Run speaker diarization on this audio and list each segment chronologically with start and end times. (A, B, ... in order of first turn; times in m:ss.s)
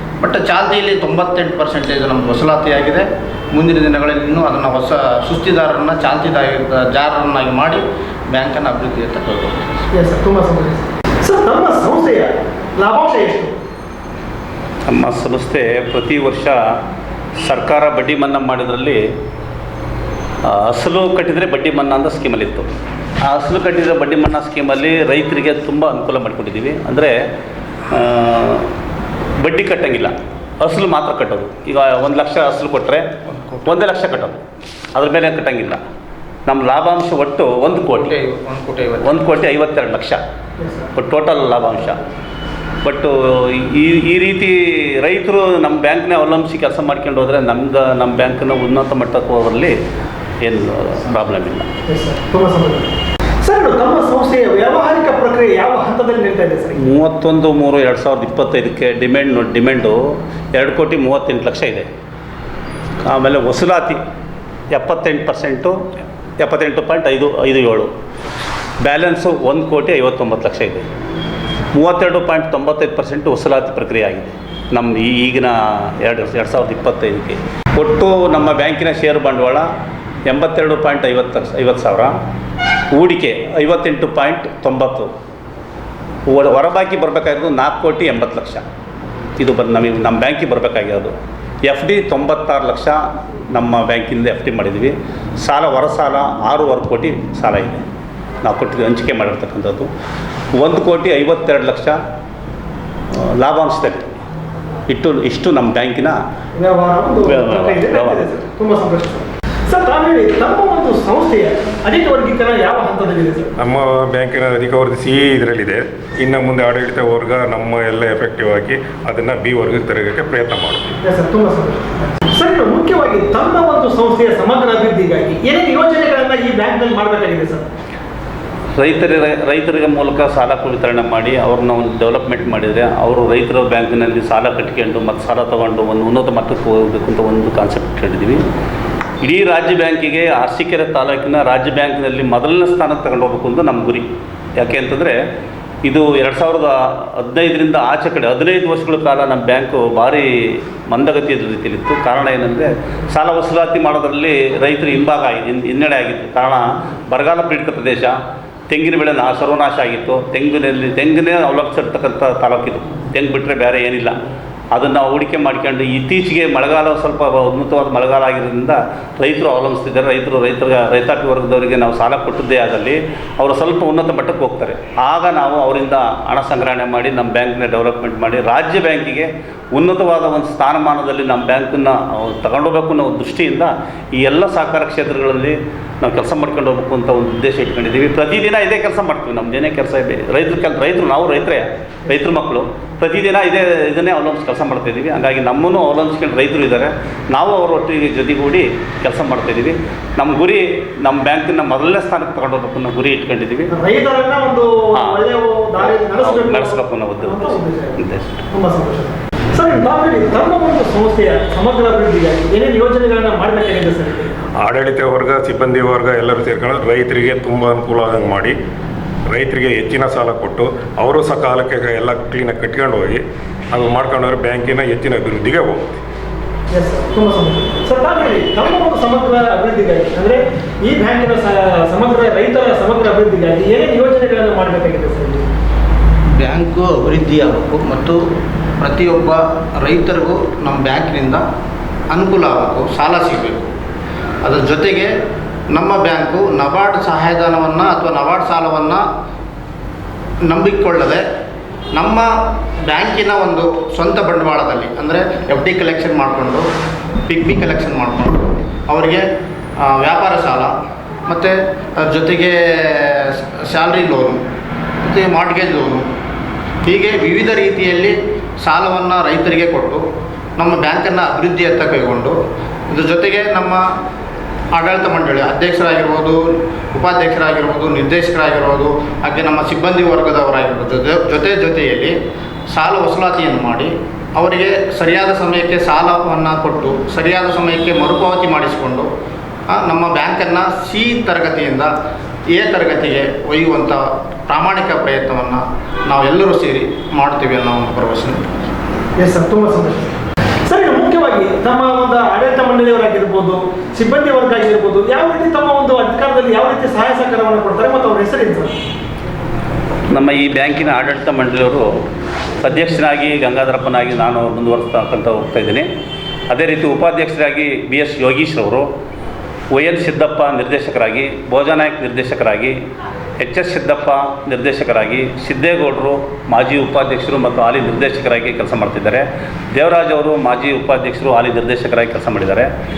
0:00.2-0:09.8 A
0:09.9-0:13.5 B
0:14.9-0:16.7 C
0:17.4-0:19.0 C
0:20.4-0:22.7 C
0:23.2-0:27.2 C
0:27.9-0:28.7 C
0:29.4-0:33.1 C
0:33.3-0:33.7 A
0:33.6-0:34.4 C
0:35.0-0:35.8 C
0:36.5-0:38.2 C
0:37.7-0:39.3 A
0:39.0-0:40.2 C
0:40.6-0:40.9 B
0:41.0-0:42.0 C
0:42.8-0:49.8 C
0:50.4-0:51.7 C
0:51.9-0:52.9 B
0:53.4-0:56.8 B
0:56.8-1:01.9 C
1:03.0-1:04.0 C
1:04.7-1:05.9 C
1:06.4-1:07.9 C
1:08.8-1:10.9 C
1:11.7-1:19.7 C
1:20.3-1:22.2 C
1:22.9-1:25.1 C
1:26.3-1:28.6 C
1:29.4-1:31.1 C
1:31.7-1:37.8 C
1:38.4-1:39.9 C
1:40.6-1:42.0 C
1:43.1-1:44.2 C
1:44.9-1:46.2 C
1:46.6-1:53.5 B
1:47.3-1:48.2 C
1:53.6-2:01.0 D
2:01.0-2:07.7 B
2:08.8-2:18.4 C
2:19.2-2:24.1 C
2:24.6-2:25.2 C
2:25.8-2:38.2 C
2:38.7-2:44.2 C
2:44.7-3:23.7 C
3:23.7-3:28.0 B
3:25.0-3:25.2 C
3:25.8-3:28.4 C
3:28.5-3:34.3 B
3:34.6-3:38.6 D
3:39.3-3:46.0 D
3:46.7-3:55.5 B
3:56.4-3:58.3 A
3:58.8-4:01.5 A
4:02.1-4:03.7 A
4:04.4-4:05.1 A
4:05.7-4:09.0 A
4:10.4-4:11.2 A
4:11.9-4:16.7 A
4:17.3-4:19.3 A
4:19.8-4:20.8 A
4:21.3-4:24.4 A
4:25.0-4:26.1 A
4:26.8-4:30.0 A
4:30.6-4:32.4 A
4:32.9-4:33.9 A
4:34.7-4:42.2 A
4:42.7-4:49.1 A
4:49.7-4:51.9 A
4:52.5-4:58.4 A
4:59.2-5:08.7 B
5:10.1-5:12.0 C
5:12.6-5:15.9 C
5:16.5-5:18.9 C
5:19.7-5:22.8 C
5:23.4-5:32.7 C